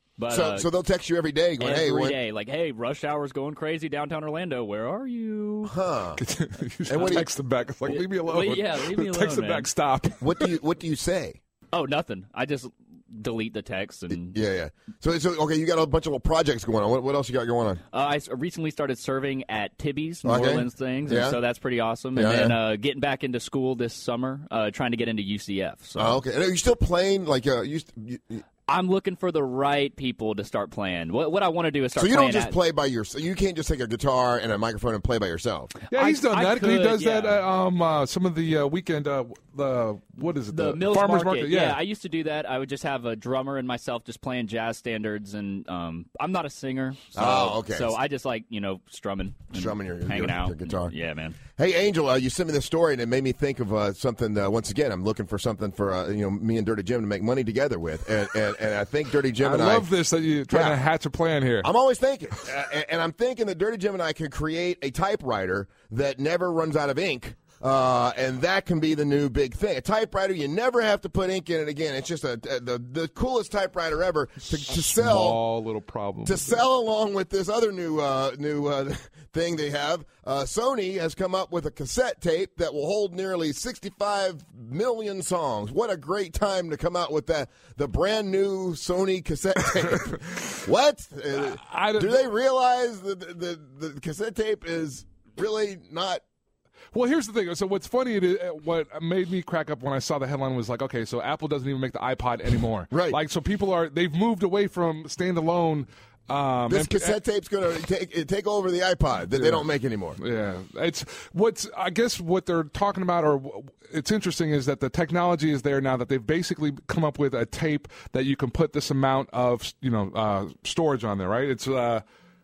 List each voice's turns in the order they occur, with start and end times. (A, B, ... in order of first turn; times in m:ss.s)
0:00.2-0:00.7 A
0:00.3-0:02.2 B
0:01.6-0:05.7 A
0:05.6-0:06.2 B
0:06.2-0:10.5 C
0:06.9-0:07.3 B
0:07.9-0:09.7 A
0:10.2-0:11.4 B
0:11.7-0:14.4 A
0:14.1-0:17.8 B
0:17.9-0:26.2 A
0:20.2-0:21.4 B
0:22.2-0:22.6 B
0:26.0-0:28.4 B
0:28.7-0:32.6 A
0:32.0-0:35.7 B
0:35.9-0:37.4 A
0:35.9-0:41.8 C
0:40.5-0:51.4 A
0:47.1-0:48.0 B
0:49.5-0:50.9 B
0:51.6-0:59.9 B
0:59.4-1:01.7 C
1:00.5-1:00.8 B
1:01.6-1:15.4 B
1:14.7-1:16.6 C
1:16.2-1:36.2 B
1:31.3-1:32.2 C
1:36.9-1:47.2 C
1:42.9-1:43.2 B
1:46.7-1:50.2 B
1:49.4-1:49.7 C
1:50.2-2:02.0 C